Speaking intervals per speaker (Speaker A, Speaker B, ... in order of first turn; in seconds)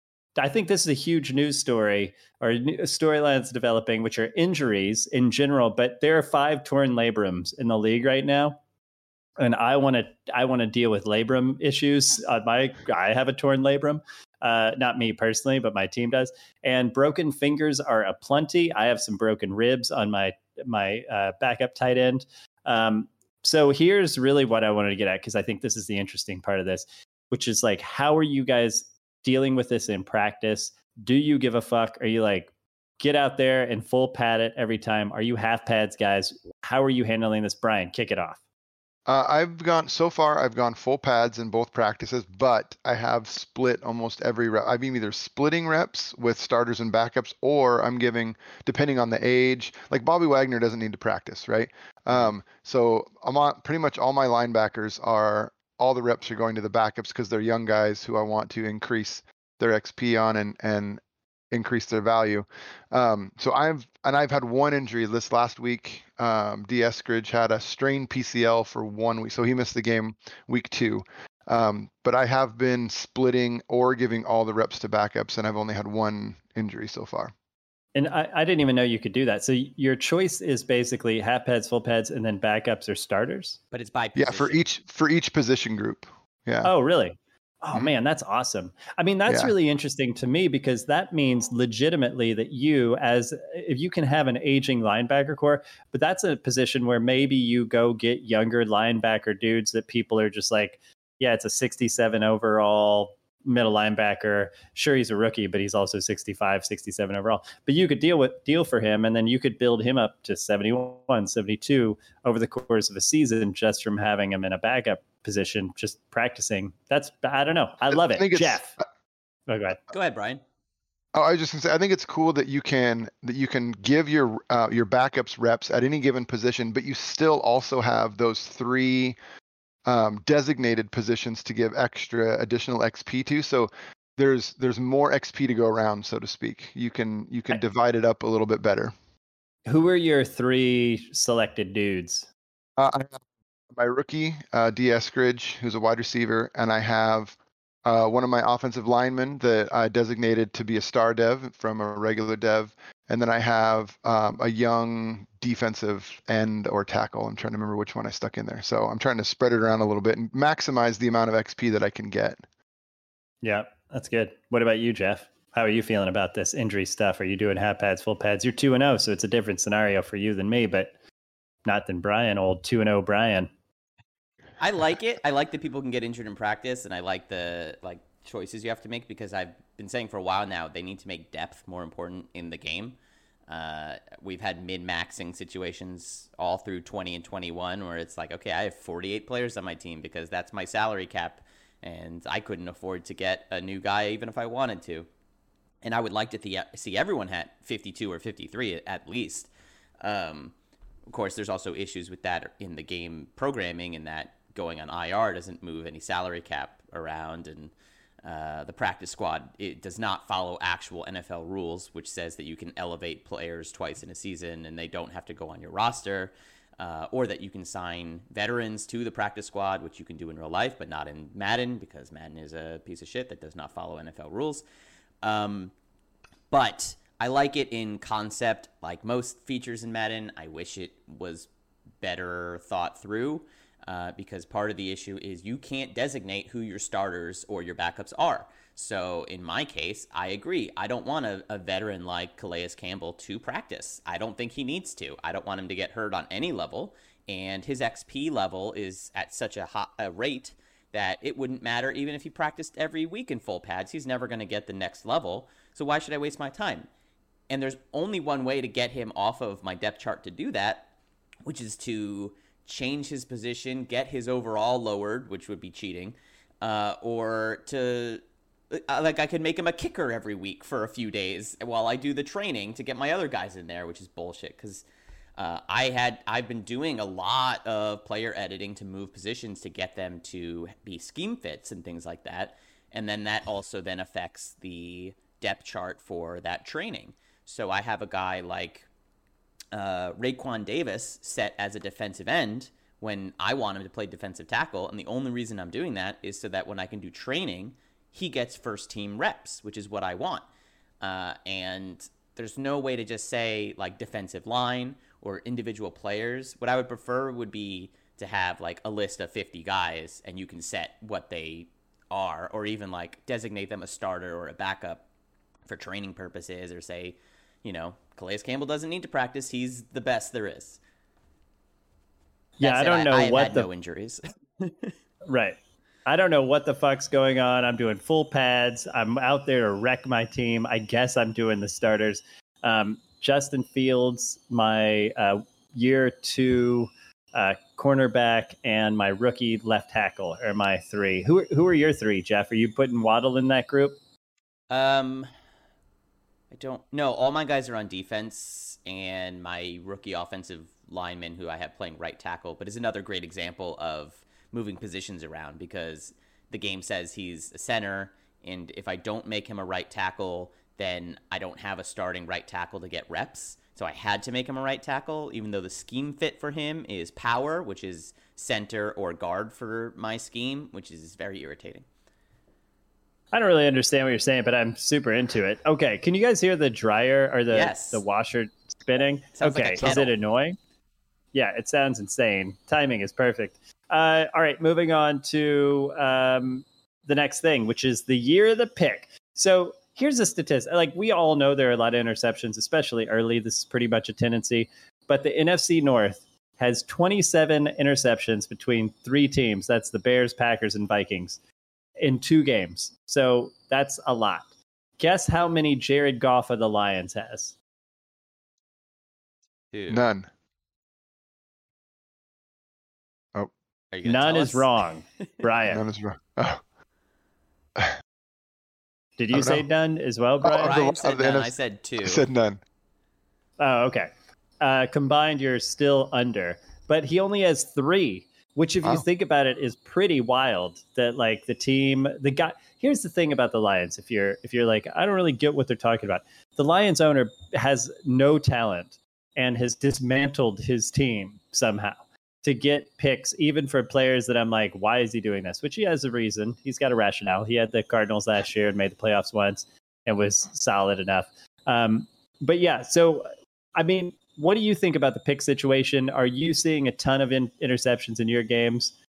Speaker A: 0.4-8.6, 9.4-38.4, 77.9-83.6, 86.6-118.8, 119.5-119.8, 139.7-142.3, 163.4-170.9, 171.7-173.5, 322.6-323.7, 325.2-344.0, 373.3-380.6, 381.3-401.4, 402.0-404.5, 405.0-407.5, 414.0-415.8, 419.2-420.8, 423.6-424.1, 424.6-458.9
Speaker B: 39.1-77.3, 84.1-86.7, 89.3-89.5, 117.9-118.7, 121.1-129.2, 129.8-138.9, 142.8-143.2, 143.7-162.4, 409.9-410.3, 415.7-416.6, 419.3-419.6, 420.4-422.6
Speaker C: 83.7-84.6, 119.9-120.4, 174.6-183.0, 183.5-195.1, 195.8-199.5, 200.0-200.5, 201.1-224.6, 225.2-225.7, 226.5-231.5, 232.0-256.9, 257.5-260.9, 261.4-274.8, 275.4-288.9, 289.7-300.4, 301.0-315.0, 315.6-320.8, 322.6-324.9, 344.7-345.3, 346.5-371.9, 377.5-378.0, 379.3-380.1, 409.7-410.0, 413.9-414.7, 420.5-422.2